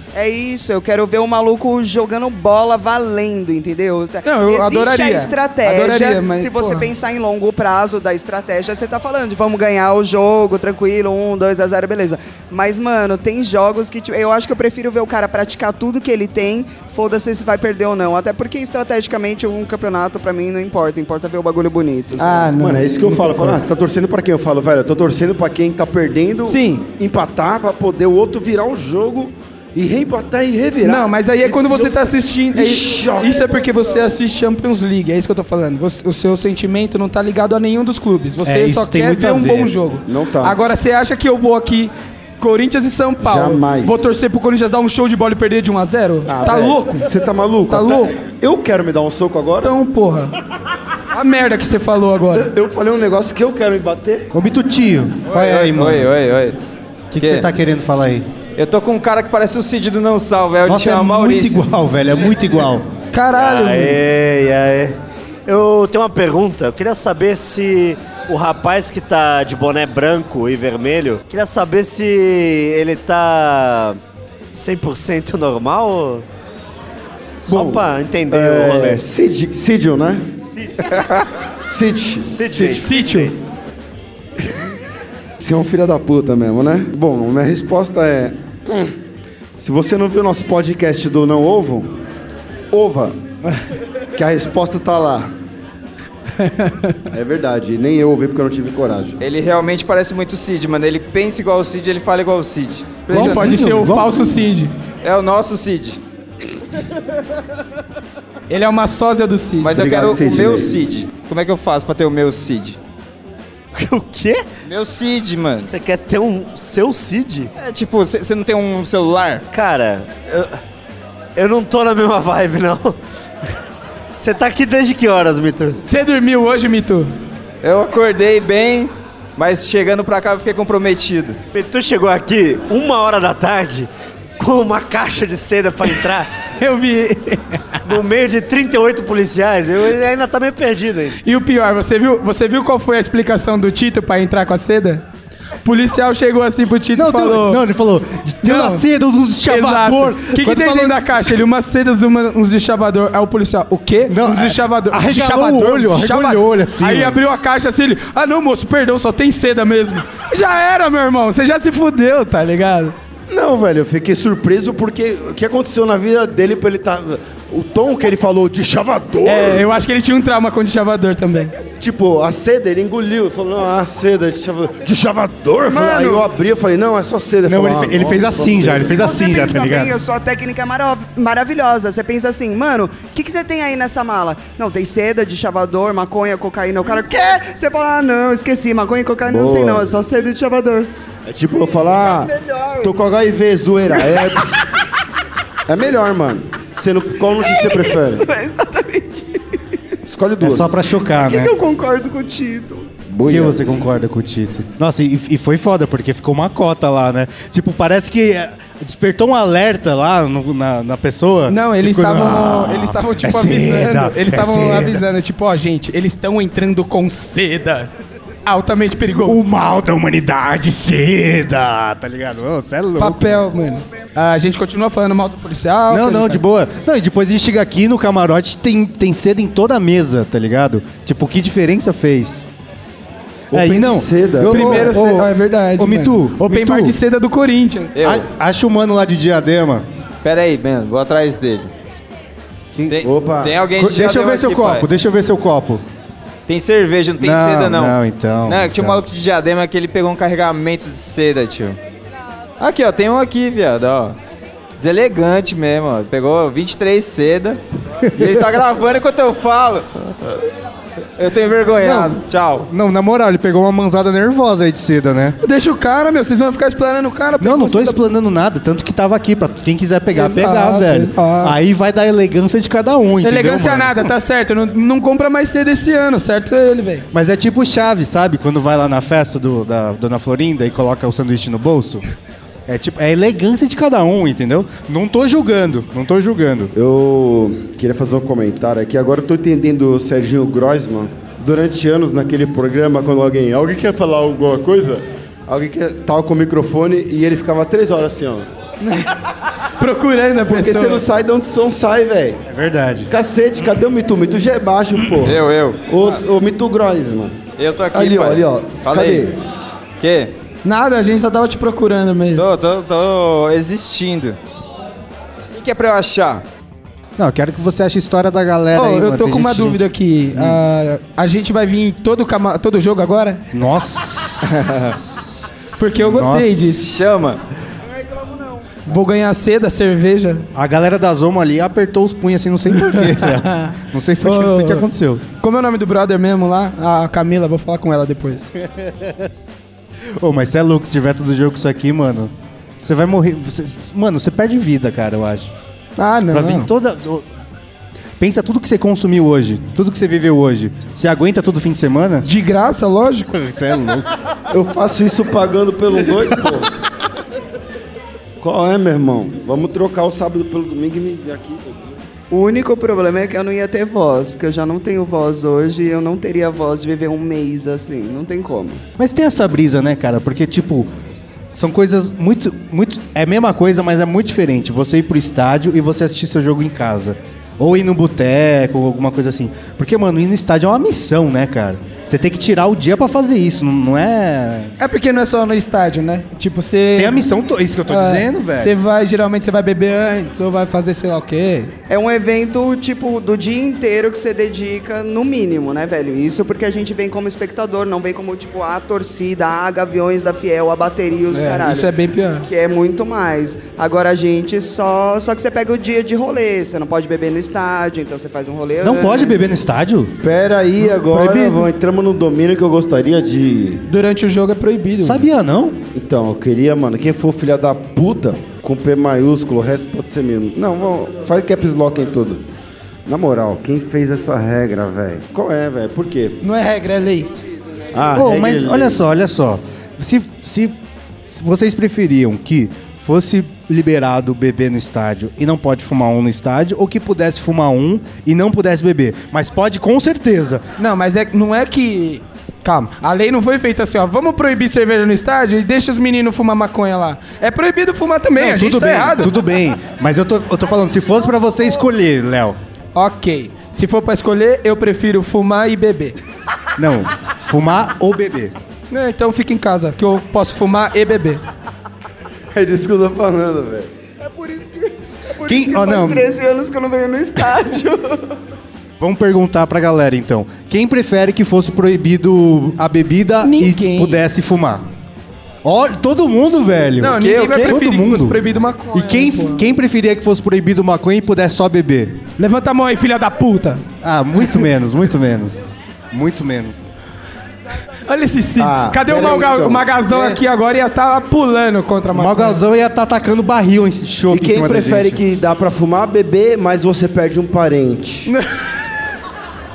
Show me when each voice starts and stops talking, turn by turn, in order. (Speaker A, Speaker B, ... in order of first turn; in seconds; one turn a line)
Speaker A: 0.1-22.4
Speaker B: 4.2-6.9
Speaker B: 22.2-23.6
Speaker C: 22.5-33.4
Speaker B: 26.4-26.9
Speaker B: 30.8-47.1
Speaker D: 38.4-39.7
Speaker C: 40.1-40.6
Speaker C: 43.2-44.1
Speaker C: 46.2-49.8
Speaker B: 47.7-48.2
Speaker B: 49.6-50.3
Speaker B: 51.1-52.5
Speaker C: 52.4-54.3
Speaker D: 54.3-56.1
Speaker E: 55.3-56.6
Speaker D: 57.1-58.3
Speaker E: 57.2-57.5
Speaker E: 58.5-61.7
Speaker D: 60.6-62.9
Speaker B: 63.1-64.0
Speaker F: 63.4-65.0
Speaker F: 65.5-74.0
Speaker F: 74.5-76.2
Speaker F: 77.4-79.0
Speaker C: 77.5-80.2
Speaker F: 80.5-80.8
Speaker C: 81.7-82.9
Speaker F: 82.2-83.3
Speaker B: 82.8-83.3
Speaker C: 85.4-88.9
Speaker C: 89.6-91.9
Speaker C: 92.7-93.2
Speaker C: 94.1-95.3
Speaker B: 96.4-97.0
Speaker C: 97.1-99.2
Speaker E: 99.2-103.6
Speaker D: 103.1-104.4
Speaker B: 103.1-104.7
Speaker E: 105.0-106.0
Speaker B: 108.5-109.7
Speaker E: 109.6-112.8
Speaker C: 109.7-110.8
Speaker F: 113.7-114.4
Speaker E: 114.6-115.7
Speaker F: 115.6-117.5
Speaker E: 117.6-119.5
Speaker F: 119.5-120.5
Speaker F: 121.3-123.0
Speaker F: 124.2-125.8
Speaker B: 125.9-127.1
Speaker E: 127.6-131.4
Speaker F: 131.5-136.3
Speaker B: 136.4-137.7
Speaker F: 137.8-141.2
Speaker B: 141.2-145.0
Speaker B: 145.6-147.6
Speaker D: 146.9-151.0
Speaker B: 148.4-148.8
Speaker B: 149.5-162.9
Speaker D: 154.1-157.2
Speaker C: 163.3-169.6
Speaker B: 169.2-171.5
Speaker C: 171.8-179.0
Speaker A: 175.7-176.2
Speaker D: 177.5-180.0
Speaker A: 178.8-190.9
Speaker C: 189.2-189.9
Speaker C: 191.3-194.7
Speaker A: 192.1-192.9
Speaker C: 195.7-198.2
Speaker A: 197.4-199.6
Speaker C: 200.1-200.8
Speaker D: 200.4-201.5
Speaker A: 201.2-202.9
Speaker C: 203.1-203.8
Speaker D: 203.2-215.1
Speaker B: 211.5-217.9
Speaker B: 218.4-219.4
Speaker D: 219.2-223.4
Speaker B: 223.0-226.4
Speaker D: 225.9-232.4
Speaker C: 233.5-234.8
Speaker D: 233.5-236.9
Speaker B: 234.5-238.0
Speaker E: 237.9-238.2
Speaker D: 238.0-239.8
Speaker E: 240.2-241.7
Speaker E: 242.9-244.9
Speaker C: 243.0-243.6
Speaker D: 243.7-245.8
Speaker E: 246.5-251.8
Speaker D: 247.2-249.0
Speaker E: 252.6-254.2
Speaker E: 254.8-257.6
Speaker E: 258.1-259.9
Speaker E: 261.2-262.7
Speaker D: 261.8-265.4
Speaker B: 265.4-268.0
Speaker D: 267.4-274.1
Speaker B: 270.1-271.6
Speaker B: 273.2-277.1
Speaker D: 277.1-282.0
Speaker D: 282.7-286.7
Speaker C: 286.7-298.5
Speaker B: 299.8-301.0
Speaker C: 300.4-302.4
Speaker D: 302.4-303.1
Speaker C: 303.1-307.4
Speaker E: 305.2-306.2
Speaker E: 307.6-309.3
Speaker C: 307.9-309.4
Speaker E: 310.0-310.3
Speaker B: 310.6-312.4
Speaker E: 312.3-314.4
Speaker E: 315.5-316.4
Speaker D: 317.2-320.6
Speaker B: 318.7-323.4
Speaker D: 323.5-325.5
Speaker E: 324.5-324.9
Speaker B: 325.8-326.9
Speaker D: 326.0-326.8
Speaker E: 326.8-327.4
Speaker A: 328.0-328.6
Speaker B: 328.9-330.5
Speaker D: 330.5-335.2
Speaker B: 332.8-334.8
Speaker B: 335.4-338.5
Speaker D: 338.6-339.3
Speaker D: 340.2-342.3
Speaker D: 342.8-345.5
Speaker B: 346.0-346.7
Speaker D: 346.3-347.2
Speaker D: 348.2-352.2
Speaker B: 352.2-353.3
Speaker D: 353.3-354.1
Speaker C: 354.5-356.7
Speaker C: 358.4-362.0
Speaker A: 362.3-368.8
Speaker D: 369.0-370.9
Speaker D: 371.5-384.7
Speaker B: 384.8-387.2
Speaker D: 386.9-388.7
Speaker B: 387.9-391.7
Speaker A: 391.9-401.9
Speaker B: 401.3-402.5
Speaker A: 402.4-409.5
Speaker D: 408.8-410.1
Speaker C: 410.2-413.8
Speaker B: 410.9-411.7
Speaker B: 413.9-415.2
Speaker D: 415.0-415.8
Speaker C: 415.9-422.4
Speaker C: 423.1-426.4
Speaker B: 426.4-427.3
Speaker C: 427.9-429.0
Speaker D: 428.1-430.8
Speaker D: 431.3-440.6
Speaker B: 440.8-449.3
Speaker D: 448.4-452.6
Speaker B: 452.9-456.1
Speaker D: 456.8-458.5
Speaker B: 458.9-461.4
Speaker C: 462.5-463.9
Speaker A: 464.2-468.4
Speaker D: 465.4-466.3
Speaker D: 469.0-474.9
Speaker B: 473.4-474.2
Speaker D: 475.6-478.4
Speaker B: 477.0-479.6
Speaker E: 477.2-477.8
Speaker D: 478.9-482.2
Speaker B: 482.4-483.8
Speaker D: 484.0-485.6
Speaker D: 486.1-486.8
Speaker B: 488.1-492.6
Speaker C: 488.6-490.0
Speaker D: 492.1-495.2
Speaker C: 494.3-498.3